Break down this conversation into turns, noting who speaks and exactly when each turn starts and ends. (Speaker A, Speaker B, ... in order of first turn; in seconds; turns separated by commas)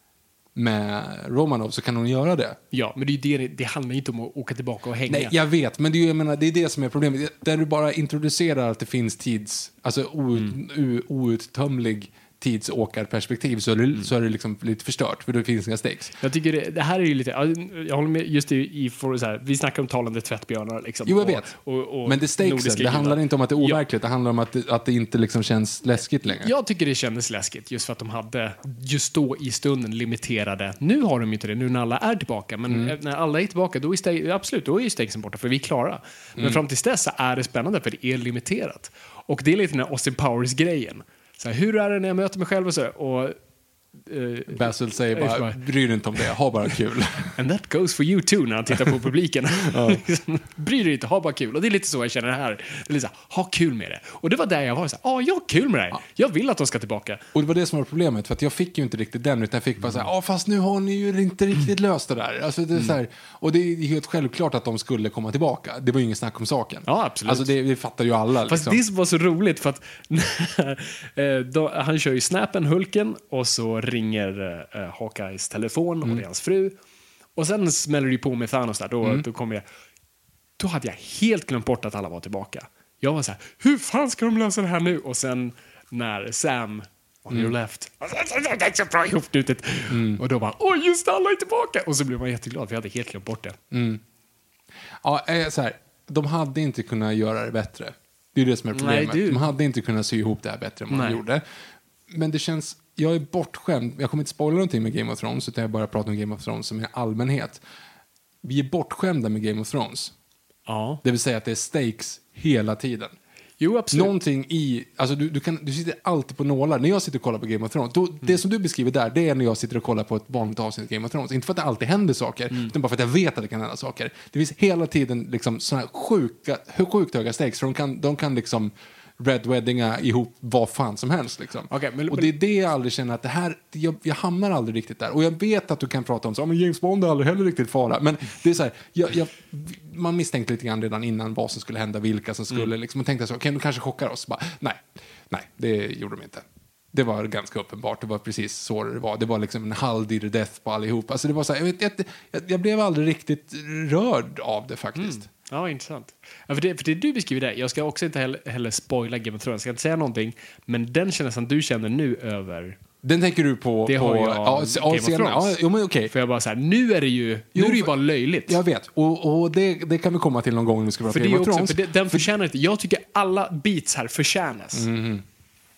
Speaker A: 0.5-2.6, Speaker B: 2.7-5.3, Speaker A: 5.1-16.2, Speaker B: 16.2-23.8, Speaker A: 21.1-26.5, Speaker B: 26.3-43.4, Speaker A: 32.7-33.0, Speaker A: 36.4-36.6, Speaker B: 44.0-45.6, Speaker A: 44.5-47.4, Speaker B: 47.3-57.2, Speaker A: 49.7-50.0, Speaker A: 57.3-68.8, Speaker B: 66.8-67.5, Speaker B: 68.5-76.8, Speaker B: 77.3-79.6, Speaker B: 80.6-93.6, Speaker A: 89.9-90.2, Speaker A: 93.7-94.0, Speaker A: 95.0-101.4, Speaker B: 98.7-99.5, Speaker B: 100.9-101.2, Speaker A: 102.1-107.6, Speaker A: 108.4-110.1, Speaker B: 110.7-111.0, Speaker A: 111.0-113.2, Speaker B: 113.6-114.1, Speaker A: 113.9-155.3, Speaker B: 131.7-132.3, Speaker B: 154.9-162.8, Speaker A: 163.0-166.1, Speaker B: 163.8-165.6, Speaker B: 166.1-168.6, Speaker A: 167.5-167.9, Speaker A: 168.4-172.3, Speaker B: 171.1-174.9, Speaker A: 174.7-175.2